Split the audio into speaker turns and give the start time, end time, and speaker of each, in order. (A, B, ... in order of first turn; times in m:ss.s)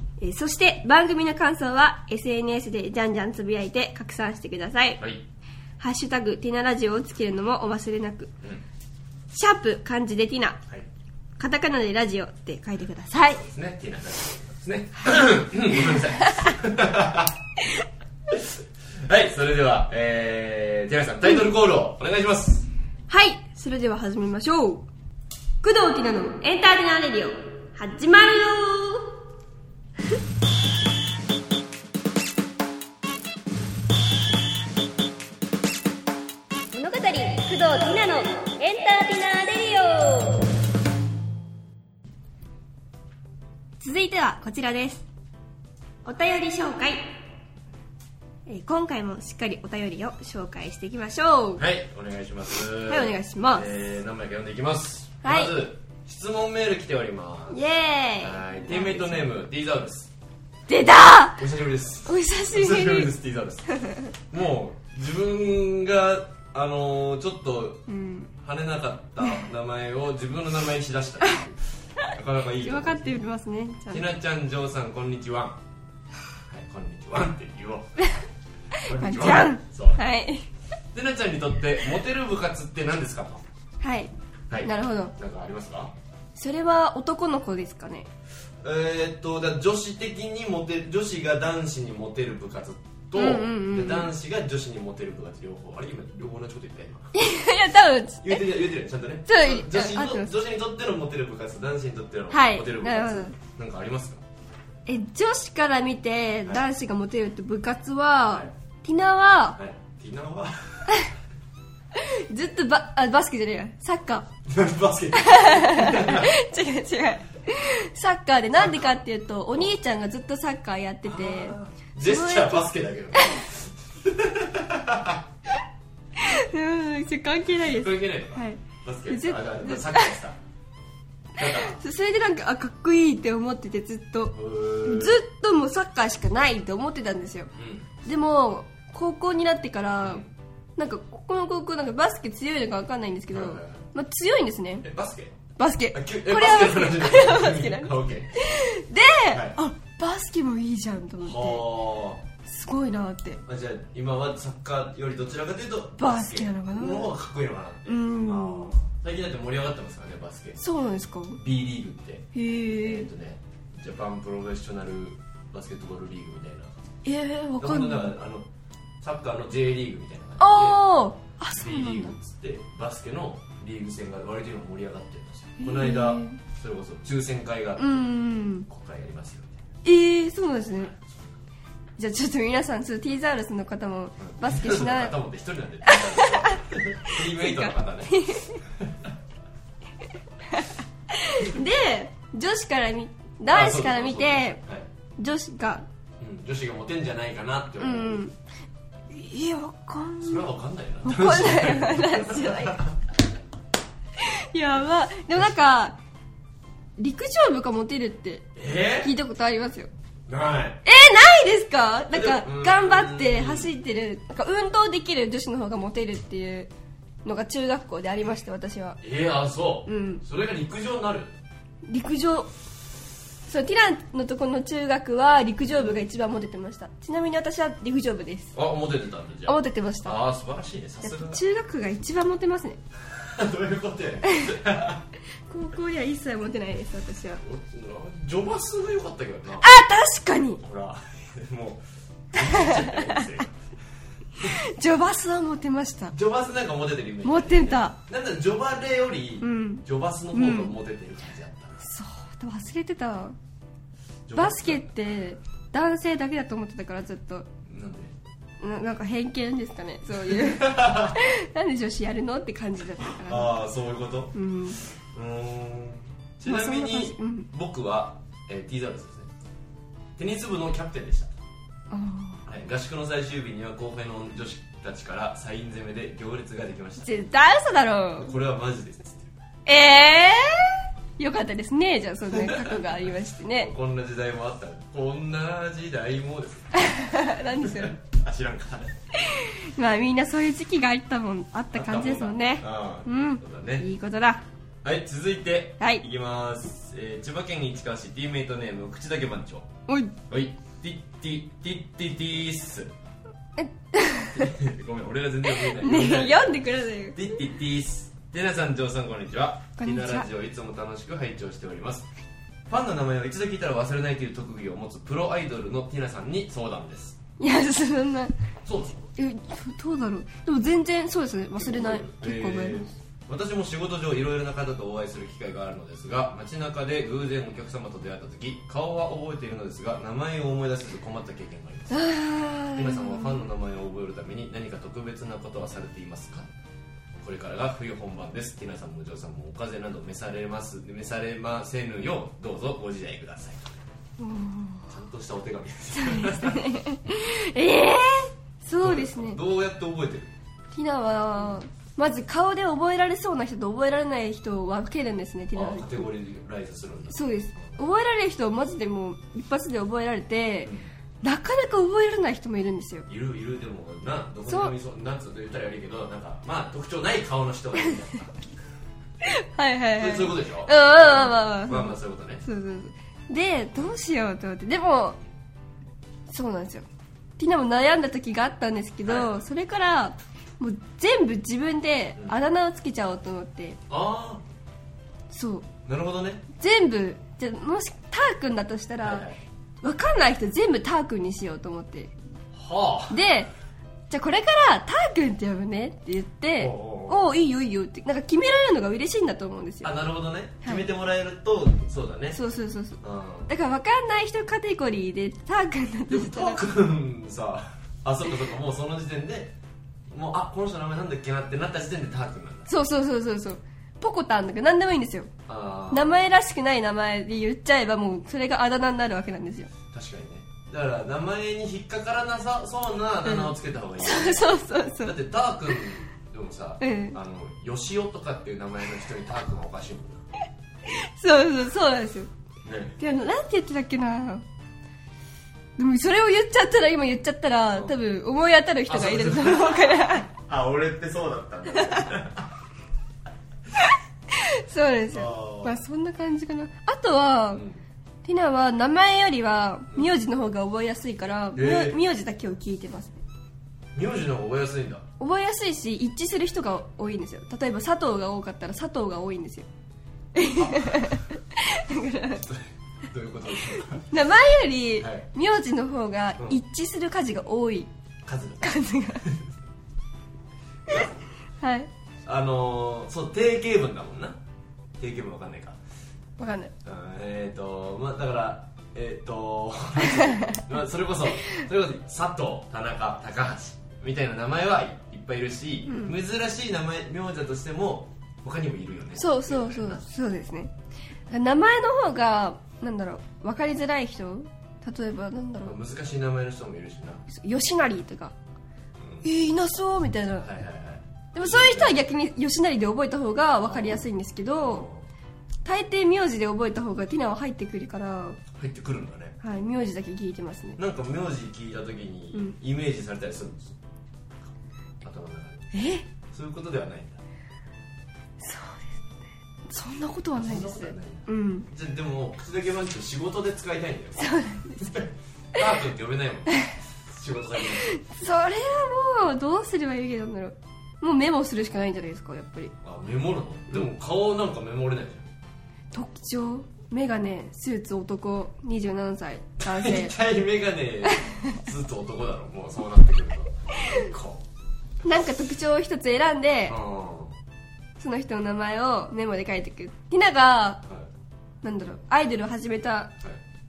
0:00.2-0:05.0 A
0:05.8-0:08.3 A
0:09.3-0:10.6 A
0:11.4-0:13.4 A
0:13.3-0:17.4 B
0:15.8-0:16.5 A
0:18.3-0:22.7 B
0:23.1-0:24.9 A
0:25.6-0:29.0 A
0:36.7-0:40.5 A
0:43.8-0:45.0 A
0:46.0-0:47.0 A
0:48.5-0:51.6 A
0:51.6-0:57.6 B
0:52.9-0:53.8 A
0:55.2-0:55.5 A
0:57.5-0:59.3 A
0:58.2-1:00.1 B
1:00.7-1:01.4 A
1:01.4-1:03.7 B
1:02.0-1:03.1 A
1:03.7-1:04.1 A
1:04.3-1:07.8 B
1:07.9-1:08.3 A
1:08.4-1:13.2 B
1:12.0-1:14.1 A
1:13.9-1:15.6 B
1:16.5-1:17.9 B
1:18.7-1:20.4 A
1:18.8-1:20.0 B
1:20.9-1:23.4 B
1:23.8-1:24.1 A
1:24.5-1:25.9 B
1:24.6-1:25.1 A
1:26.4-1:28.1 A
1:28.6-1:37.1 B
1:33.1-1:34.1 A
1:37.1-1:38.5 A
1:38.2-1:44.2 B
1:39.2-1:40.3 A
1:42.3-1:43.4 A
1:44.8-1:49.6 A
1:49.6-1:51.0 B
1:51.9-1:54.3 A
1:54.4-1:56.3 B
1:55.1-2:03.4 A
1:58.6-1:59.0 B
2:01.0-2:05.2 B
2:06.2-2:10.2 A
2:07.5-2:10.4 B
2:11.4-2:11.8 B
2:11.4-2:17.5 A
2:14.3-2:15.2 B
2:17.6-2:17.9 B
2:18.0-2:20.2 A
2:20.0-2:20.3 B
2:20.8-2:24.8 A
2:23.3-2:23.8 B
2:24.8-2:25.4 B
2:25.6-2:31.7 A
2:25.9-2:28.3 B
2:29.3-2:29.6 B
2:31.2-2:32.2 B
2:32.4-2:33.4 A
2:33.4-2:40.6 B
2:36.0-2:37.1 A
2:37.8-2:38.8 A
2:40.6-2:41.4 A
2:41.4-2:46.7 B
2:42.3-2:43.1 A
2:47.0-2:48.1 A
2:47.6-2:48.5 B
2:49.0-2:50.8 B
2:50.4-2:52.2 A
2:51.5-2:58.0 B
2:55.6-2:56.4 A
2:57.8-2:58.7 A
2:58.7-2:59.6 B
2:59.8-3:00.9 A
3:00.8-3:01.2 B
3:02.0-3:05.2 A
3:04.2-3:09.1 B
3:05.8-3:08.6 A
3:10.4-3:14.6 A
3:13.5-3:14.8 B
3:15.2-3:15.8 A
3:16.2-3:18.2 B
3:17.8-3:18.3 A
3:19.1-3:20.5 A
3:20.2-3:23.0 B
3:21.0-3:22.8 A
3:24.2-3:26.0 A
3:27.0-3:29.9 A
3:28.6-3:29.1 B
3:30.3-3:30.8 B
3:30.8-3:36.7 A
3:32.1-3:33.7 B
3:37.2-3:39.0 A
3:39.0-3:41.3 B
3:39.8-3:40.2 A
3:41.9-3:42.5 A
3:43.5-3:48.5 A
3:45.7-3:46.0 B
3:48.5-3:51.4 B
3:49.5-3:50.2 A
3:51.0-3:52.8 A
3:53.0-3:55.1 B
3:54.2-3:54.6 A
3:55.5-3:57.4 A
3:57.4-3:59.7 B
3:59.6-4:00.6 A
4:00.6-4:03.6 B
4:02.3-4:03.4 A
4:04.4-4:06.1 A
4:06.1-4:11.8 B
4:07.2-4:08.0 A
4:09.4-4:10.8 A
4:11.8-4:13.4 A
4:14.3-4:14.9 B
4:14.3-4:17.5 A
4:17.6-4:18.1 B
4:18.6-4:23.6 A
4:20.1-4:21.2 B
4:23.2-4:24.3 B
4:24.3-4:24.8 A
4:24.8-4:29.3 B
4:26.4-4:27.5 A
4:30.2-4:31.3 B
4:31.9-4:32.4 A
4:32.4-4:37.2 B
4:37.0-4:38.3 A
4:38.2-4:39.3 B
4:39.6-4:43.7 A
4:42.3-4:49.0 B
4:46.7-4:48.0 A
4:49.1-4:54.4 A
4:51.7-4:53.8 B
4:54.8-4:59.7 B
4:59.9-5:00.2 A
5:00.3-5:02.9 B
5:03.6-5:04.5 A
5:04.3-5:06.6 B
5:05.5-5:07.4 A
5:07.1-5:12.1 B
5:09.8-5:10.3 A
5:12.7-5:17.2 B
5:17.4-5:18.3 A
5:18.6-5:19.0 B
5:19.2-5:22.9 A
5:21.6-5:32.1 B
5:31.9-5:33.4 A
5:32.7-5:36.5 B
5:37.2-5:43.8 B
5:44.2-5:44.9 A
5:44.9-5:46.7 B
5:45.9-5:49.4 A
5:48.8-5:50.3 B
5:50.7-5:56.1 A
5:55.5-5:57.8 B
5:57.1-6:03.1 A
6:03.1-6:08.3 B
6:04.5-6:04.7 A
6:09.2-6:15.2 A
6:10.0-6:12.4 B
6:16.3-6:16.8 A
6:17.4-6:23.8 A
6:19.0-6:19.3 B
6:23.9-6:24.4 B
6:25.3-6:25.7 A
6:25.8-6:26.4 B
6:26.6-6:29.2 A
6:29.0-6:29.4 B
6:29.8-6:32.1 A
6:32.5-6:33.2 B
6:33.1-6:33.5 A
6:34.1-6:39.9 A
6:36.6-6:37.3 B
6:39.8-6:42.4 B
6:42.3-6:46.6 A
6:43.0-6:43.5 B
6:46.1-6:49.5 B
6:50.1-6:52.7 B
6:52.7-6:55.3 A
6:55.5-6:56.3 B
6:55.9-6:59.7 A
6:59.9-7:10.2 B
7:03.2-7:05.2 A
7:06.8-7:07.2 A
7:10.8-7:12.3 A
7:12.6-7:13.0 B
7:13.0-7:14.4 A
7:15.8-7:20.3 A
7:18.9-7:22.5 B
7:21.7-7:22.0 A
7:23.8-7:27.6 A
7:25.1-7:25.8 B
7:27.5-7:27.8 B
7:28.2-7:33.2 A
7:31.5-7:32.0 B
7:33.9-7:35.0 B
7:35.2-7:39.7 A
7:40.3-7:42.5 A
7:40.5-7:41.2 B
7:42.4-7:44.1 B
7:43.9-7:47.9 A
7:45.0-7:45.2 B
7:48.2-7:49.5 B
7:48.6-7:49.3 A
7:50.9-7:51.1 B
7:51.6-7:51.9 A
7:52.2-7:54.4 B
7:55.0-7:55.8 B
7:56.4-7:56.7 A
7:56.8-8:10.1 B
8:00.2-8:00.6 A
8:05.9-8:06.1 A
8:09.2-8:10.7 A
8:11.3-8:15.8 A
8:15.6-8:17.2 B
8:17.3-8:18.3 A
8:19.0-8:19.2 B
8:19.2-8:20.5 A
8:20.4-8:22.0 B
8:21.3-8:24.8 A
8:23.6-8:24.1 B
8:24.6-8:25.0 B
8:25.6-8:28.4 A
8:28.5-8:29.4 B
8:29.4-8:30.8 A
8:30.8-8:33.8 B
8:35.0-8:35.7 B
8:35.7-8:36.0 A
8:36.3-8:37.2 B
8:38.4-8:39.0 A
8:39.7-8:41.7 A
8:40.3-8:48.0 B
8:44.2-8:45.0 A
8:47.8-8:52.7 A
8:52.8-8:55.3 B
8:55.9-9:00.2 A
8:59.6-9:04.4 B
9:01.1-9:01.6 A
9:03.7-9:04.1 A
9:05.0-9:06.8 A
9:06.7-9:07.4 B
9:08.0-9:10.8 A
9:11.6-9:13.2 A